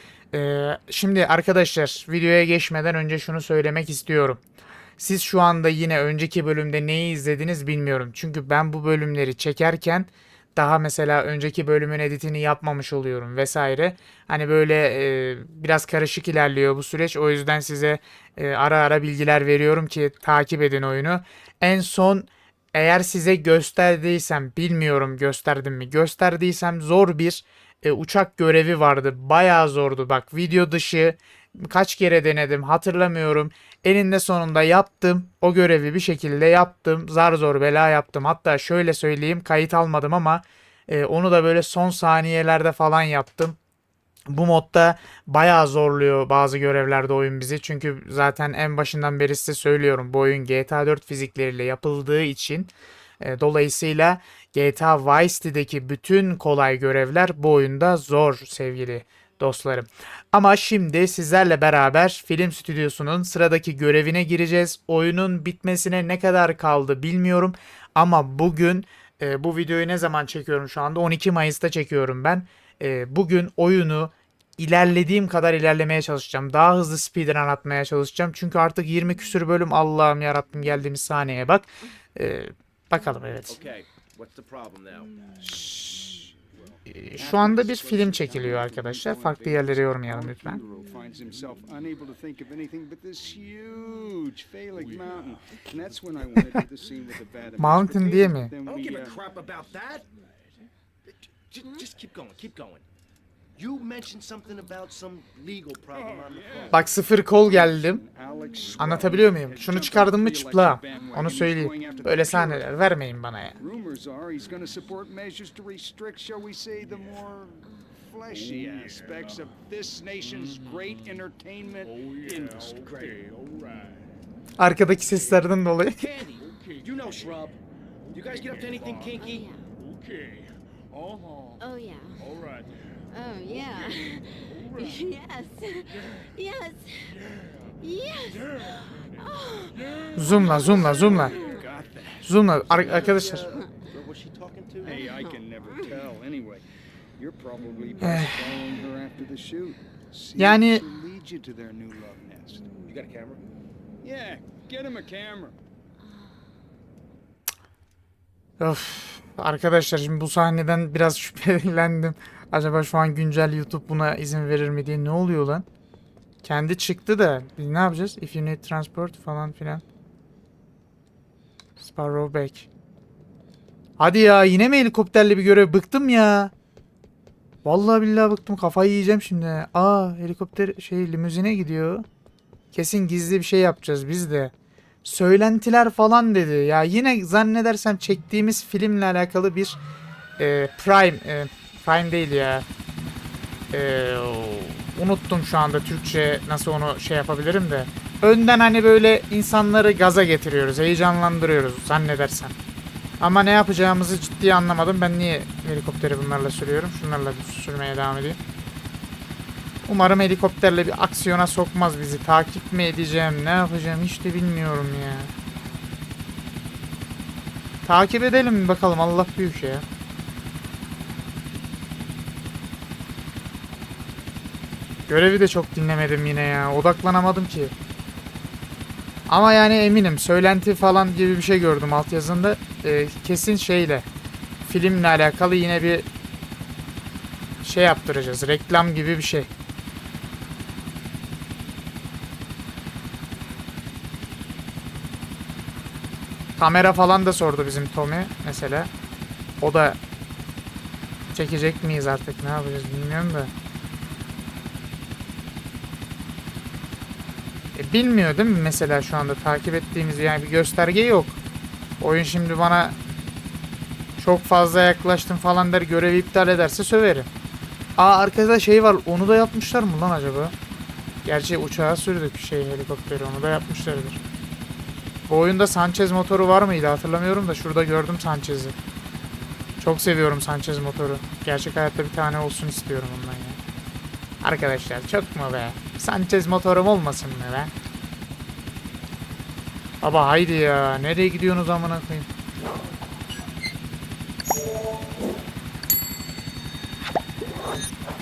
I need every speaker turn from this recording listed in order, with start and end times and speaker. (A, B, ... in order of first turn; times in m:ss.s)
0:00.3-0:04.4 A
0:05.0-0:43.6 A
0:44.3-1:23.6 A
1:23.5-1:25.1 B
1:25.4-1:26.2 A
1:26.9-1:30.6 A
1:27.1-1:39.2 C
1:37.6-1:38.5 A
1:38.6-1:40.1 B
1:41.1-1:42.8 B
1:43.6-1:46.9 B
1:45.9-1:52.8 C
1:46.7-1:48.0 A
1:48.8-1:53.6 A
1:53.6-2:02.6 C
2:02.1-2:03.9 D
2:02.3-2:03.3 B
2:04.6-2:06.0 A
2:06.0-2:07.6 B
2:08.1-2:09.5 B
2:08.8-2:09.1 D
2:09.2-2:09.6 E
2:09.9-2:10.4 D
2:11.6-2:12.3 E
2:13.1-2:17.2 E
2:17.8-2:21.6 E
2:20.2-2:21.4 A
2:20.3-2:22.2 C
2:22.2-2:23.4 A
2:22.6-2:25.0 B
2:24.8-2:26.6 C
2:24.9-2:25.9 E
2:27.2-2:32.7 C
2:28.0-2:28.4 A
2:30.4-2:30.8 A
2:32.8-2:33.4 B
2:34.0-2:35.6 C
2:38.6-2:45.6 A
2:46.4-2:49.8 A
2:51.8-2:52.7 A
2:54.0-2:56.5 A
2:57.6-3:02.0 A
3:02.7-3:04.5 A
3:05.0-3:09.8 A
3:10.4-3:12.6 A
3:13.7-3:22.5 A
3:23.2-3:28.4 A
3:29.8-3:35.3 A
3:37.8-3:39.8 A
3:45.1-3:47.7 A
3:49.3-3:54.0 A
3:54.6-3:56.1 A
3:57.6-3:59.5 A
4:06.6-4:08.9 A
4:09.6-4:10.0 A
4:11.3-4:13.5 A
4:17.7-4:21.4 A
4:22.0-4:23.0 A
4:24.2-4:27.3 A
4:28.0-4:30.5 A
4:31.2-4:34.2 A
4:35.3-4:38.8 A
4:39.8-4:43.6 A
4:44.4-4:47.7 A
4:50.0-4:52.3 A